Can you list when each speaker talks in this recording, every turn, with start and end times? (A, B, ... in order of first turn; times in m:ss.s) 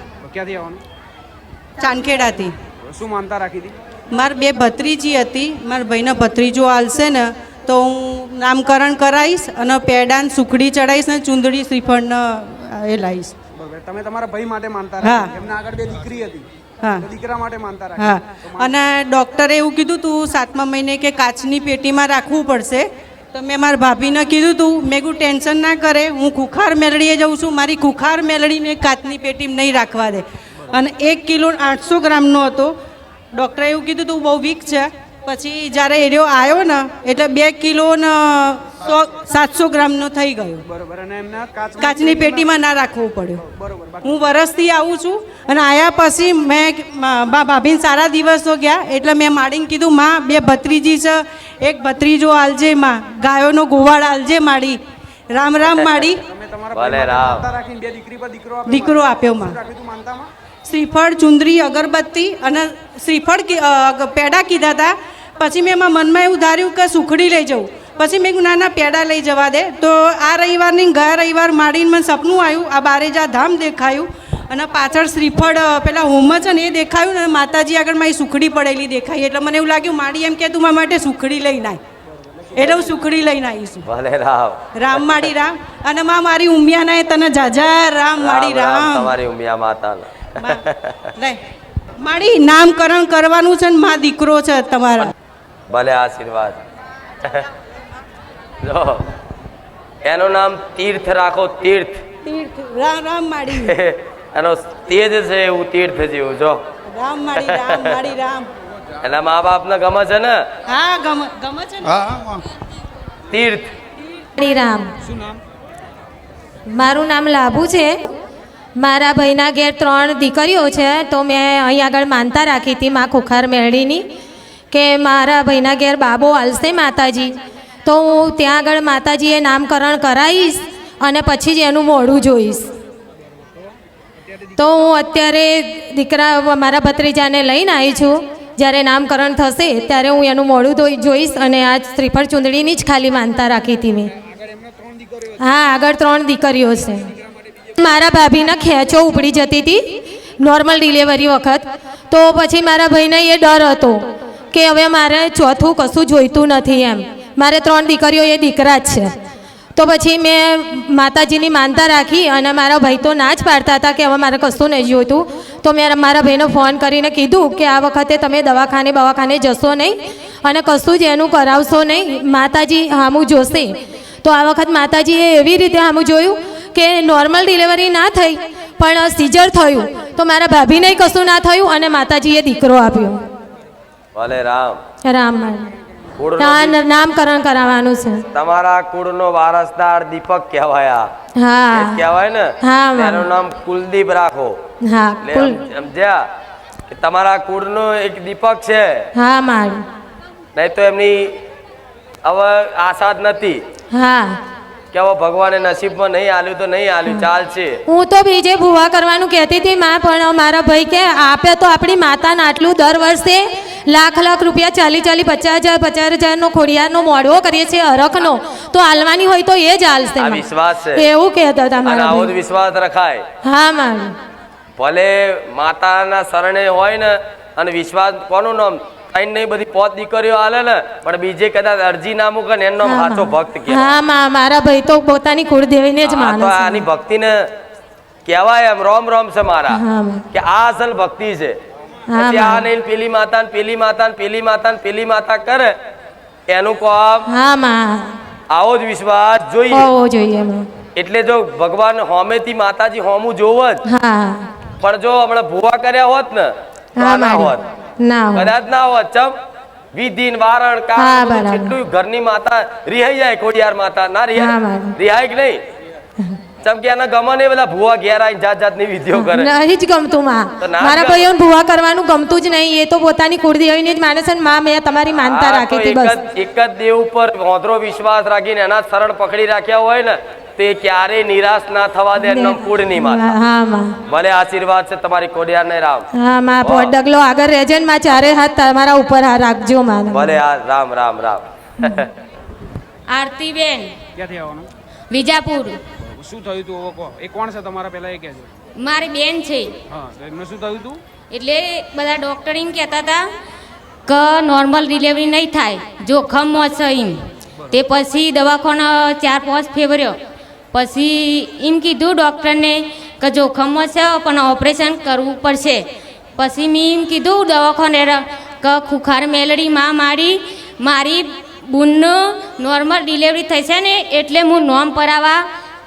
0:00.2-0:00.8 A
0:01.8-0:02.6 B
0:02.8-0:03.7 A
0:04.1-0:13.3 B
0:13.6-0:16.5 A
0:15.0-0:15.3 B
0:16.8-0:17.1 B
0:17.0-0:18.9 A
0:18.0-0:32.8 B
0:33.3-0:40.6 B
0:40.7-0:42.5 A
0:41.8-0:43.5 B
0:43.5-0:44.1 A
0:44.0-0:56.2 B
0:55.7-0:56.2 C
0:56.2-1:00.3 A
0:56.7-0:57.6 C
0:58.7-0:59.6 B
1:00.6-1:21.8 B
1:22.5-1:23.9 B
1:23.8-1:24.6 C
1:24.8-1:29.2 B
1:28.2-1:31.1 C
1:30.4-1:30.6 B
1:32.0-1:35.1 B
1:35.7-1:36.6 C
1:38.6-1:39.1 C
1:40.0-1:42.0 C
1:42.2-1:43.7 B
1:43.5-1:46.6 C
1:46.9-1:48.5 B
1:47.3-1:48.1 C
1:49.0-1:50.4 C
1:50.7-1:52.3 B
1:53.3-1:53.7 C
1:54.4-1:54.9 D
1:55.0-1:55.4 A
1:56.7-1:58.1 D
1:58.8-2:04.1 D
2:04.7-2:12.7 D
2:14.6-2:24.1 D
2:24.4-2:25.0 A
2:25.4-2:27.1 D
2:27.8-2:39.1 D
2:39.8-3:03.2 D
3:04.2-3:04.8 C
3:05.0-3:05.7 D
3:06.2-3:06.8 C
3:06.4-3:08.2 D
3:08.3-3:11.1 C
3:11.4-3:12.0 D
3:11.7-3:14.6 C
3:12.6-3:13.3 D
3:14.8-3:15.6 D
3:15.2-3:16.2 C
3:16.9-3:19.1 C
3:19.2-3:19.8 D
3:20.6-3:21.3 C
3:22.2-3:23.6 C
3:23.9-3:24.4 D
3:24.9-3:27.8 C
3:27.9-3:42.3 D
3:40.2-3:41.1 C
3:41.8-3:43.2 C
3:43.4-3:44.2 D
3:44.8-3:53.9 C
3:52.8-3:56.9 D
3:56.0-3:57.3 C
3:58.2-3:59.8 C
3:59.7-4:00.2 D
4:00.3-4:01.6 C
4:02.1-4:02.7 D
4:02.2-4:05.7 C
4:06.5-4:07.3 C
4:07.3-4:08.2 D
4:08.5-4:09.9 C
4:09.7-4:10.7 D
4:11.0-4:13.8 C
4:13.9-4:14.5 D
4:14.8-4:17.6 C
4:17.0-4:18.5 D
4:18.3-4:19.4 C
4:19.9-4:25.6 C
4:21.0-4:21.8 D
4:24.4-4:24.9 D
4:26.6-4:29.5 C
4:29.1-4:36.1 D
4:30.6-4:31.3 C
4:35.2-4:43.4 C
4:42.2-4:44.0 D
4:44.1-4:46.1 C
4:46.2-4:50.4 D
4:46.6-4:46.9 C
4:50.1-4:52.1 C
4:53.1-4:53.9 E
4:54.2-4:54.7 A
4:55.1-4:55.8 E
4:56.1-4:58.5 A
4:58.8-4:59.8 E
4:59.9-5:01.0 A
5:01.3-5:03.2 E
5:04.1-5:07.2 E
5:07.7-5:10.2 E
5:10.7-5:15.8 E
5:16.4-5:25.4 E